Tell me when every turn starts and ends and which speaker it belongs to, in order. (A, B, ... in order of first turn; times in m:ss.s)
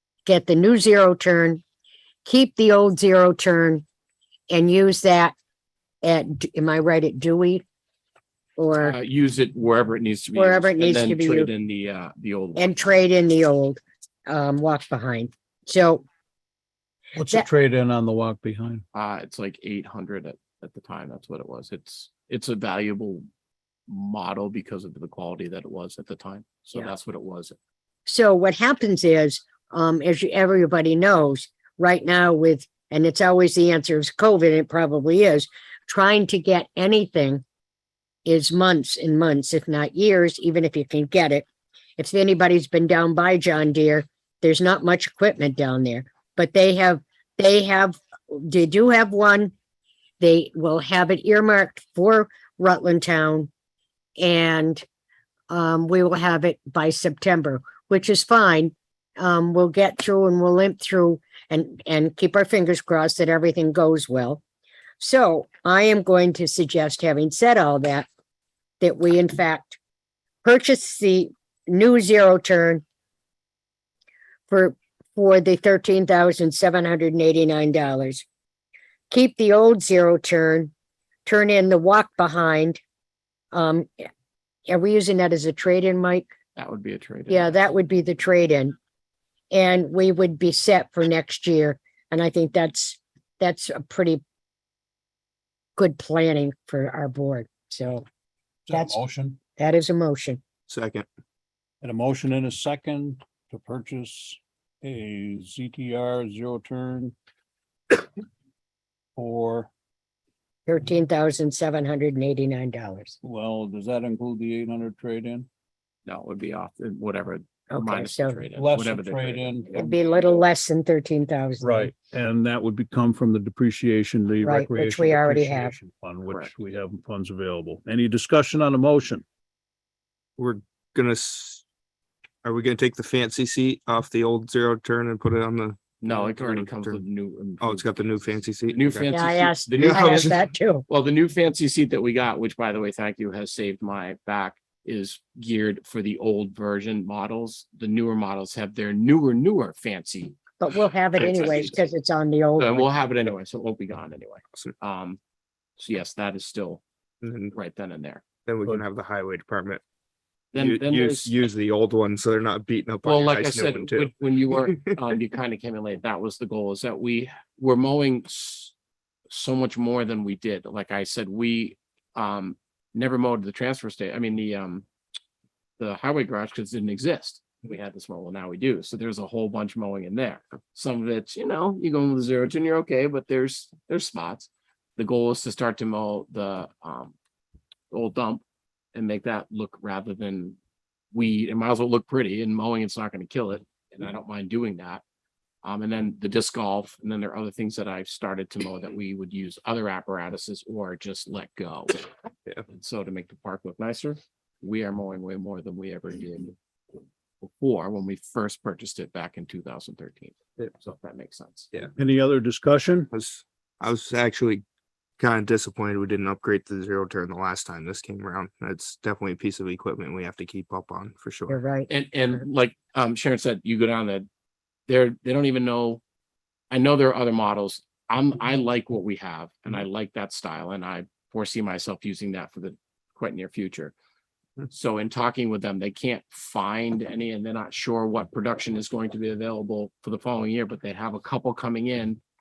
0:00.3-0:01.6 A
0:02.2-0:03.8 A
0:04.5-0:05.4 A
0:06.0-0:07.6 A
0:08.6-0:09.0 A
0:08.8-0:13.0 B
0:10.4-0:11.5 A
0:12.6-0:16.0 A
0:17.2-0:18.8 C
0:18.9-0:23.2 B
0:23.9-0:27.6 B
0:28.1-0:37.4 A
0:38.2-0:41.5 A
0:42.0-0:49.5 A
0:50.2-0:53.5 A
0:54.2-0:54.8 A
0:55.5-1:04.4 A
1:05.0-1:08.1 A
1:08.8-1:09.8 A
1:10.4-1:12.8 A
1:14.5-1:18.3 A
1:19.1-1:20.7 A
1:21.2-1:22.8 A
1:23.5-1:24.1 A
1:24.7-1:26.3 A
1:26.6-1:27.6 B
1:27.3-1:28.8 A
1:29.5-1:34.2 A
1:35.8-1:38.0 A
1:38.7-1:39.4 C
1:38.7-1:39.0 A
1:39.6-1:40.4 A
1:40.7-1:41.1 D
1:41.8-1:47.1 C
1:49.2-1:49.7 C
1:50.7-1:53.2 A
1:53.2-1:55.5 C
1:56.1-2:00.4 B
1:57.7-1:58.4 A
1:58.6-1:59.7 C
1:59.7-2:01.9 A
2:01.6-2:09.2 C
2:04.4-2:05.8 A
2:10.4-2:11.6 D
2:12.4-2:17.0 D
2:16.0-2:30.4 B
2:17.6-2:19.1 D
2:19.1-2:20.8 A
2:19.8-2:20.4 D
2:30.6-2:32.9 A
2:31.2-2:31.9 B
2:32.6-2:35.2 B
2:35.8-2:36.8 B
2:37.2-2:37.5 D
2:37.5-2:38.2 B
2:38.5-2:39.8 D
2:40.5-2:41.3 B
2:40.6-2:44.9 D
2:43.0-2:48.7 B
2:49.3-2:54.8 B
2:55.8-3:07.2 B
3:07.9-3:08.4 B
3:08.9-3:10.6 B
3:11.1-3:15.0 B
3:15.6-3:22.1 B
3:22.7-3:26.6 B
3:27.4-3:31.7 B
3:32.0-3:33.1 C
3:33.1-3:34.6 D
3:35.2-3:41.6 D
3:41.5-3:41.9 A
3:41.9-3:44.3 B
3:44.9-3:46.0 B
3:46.7-3:53.9 B
3:54.7-4:02.2 B